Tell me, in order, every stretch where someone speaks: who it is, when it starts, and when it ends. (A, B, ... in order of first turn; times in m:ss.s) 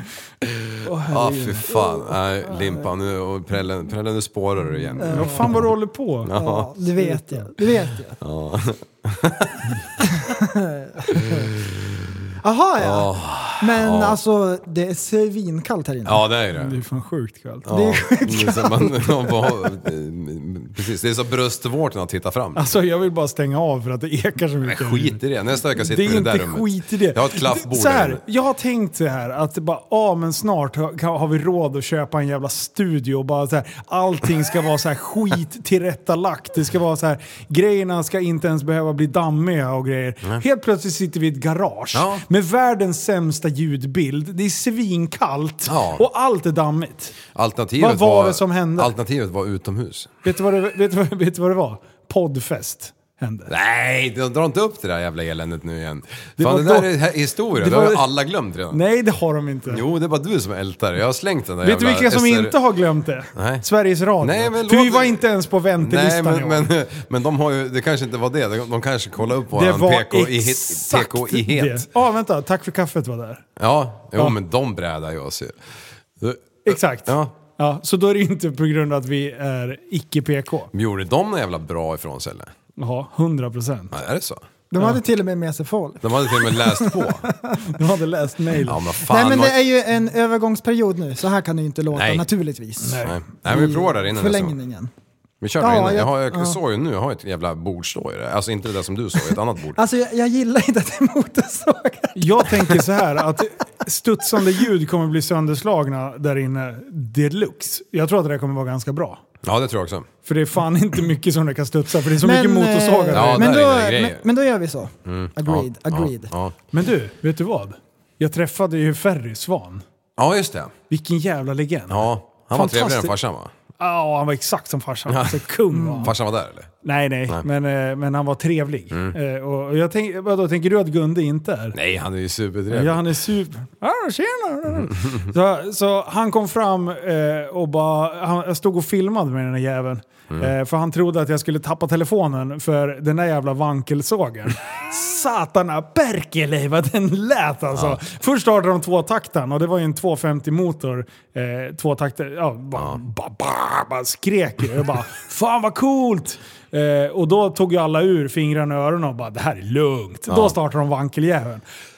0:00.4-0:05.7 A
0:00.8-0:02.0 B
0:05.0-0:05.6 C
0:05.0-0:07.8 B
0:06.2-0:06.7 A
0:06.3-0:08.2 C
0:08.2-0:09.8 A
0:10.0-0:11.4 C
0:11.1-0:14.2 A
0:12.4-0:16.2 C
0:16.0-0:16.8 A
0:16.5-0:17.9 B
0:17.6-0:22.7 A
0:17.7-0:19.5 C
0:22.5-0:25.2 B
0:24.6-0:28.2 A
0:25.7-0:47.2 B
0:41.9-0:42.2 A
0:45.7-0:46.0 A
0:47.3-0:50.2 A
0:47.8-0:48.9 B
0:50.2-0:53.5 B
0:53.5-0:58.8 A
0:56.4-0:56.9 B
0:57.5-0:58.1 B
0:58.7-0:59.8 B
0:59.7-1:02.6 A
1:01.6-1:06.7 B
1:03.3-1:03.6 A
1:04.2-1:05.2 A
1:05.8-1:11.8 A
1:09.5-1:13.4 B
1:13.6-1:15.6 A
1:16.2-1:17.3 A
1:16.6-1:20.7 B
1:20.7-1:22.5 A
1:22.8-1:23.9 B
1:23.9-1:24.4 A
1:24.7-1:27.7 C
1:26.0-1:27.2 A
1:27.6-1:28.8 B
1:28.6-1:29.6 A
1:29.1-1:34.9 C
1:31.9-1:32.3 A
1:32.8-1:33.2 B
1:33.0-1:34.5 A
1:35.4-1:39.8 A
1:35.6-1:36.6 C
1:39.7-1:42.8 C
1:42.1-1:49.2 B
1:49.4-1:50.1 A
1:50.2-1:53.5 B
1:52.2-1:56.3 C
1:53.1-1:54.2 A
1:55.0-1:56.6 A
1:56.7-1:59.8 B
2:00.2-2:00.7 A
2:00.9-2:03.1 B
2:01.9-2:03.5 A
2:03.8-2:06.1 B
2:05.1-2:05.4 A
2:05.7-2:06.1 C
2:06.0-2:06.7 A
2:06.8-2:11.8 B
2:11.7-2:13.1 A
2:12.7-2:41.6 B
2:40.3-2:40.6 A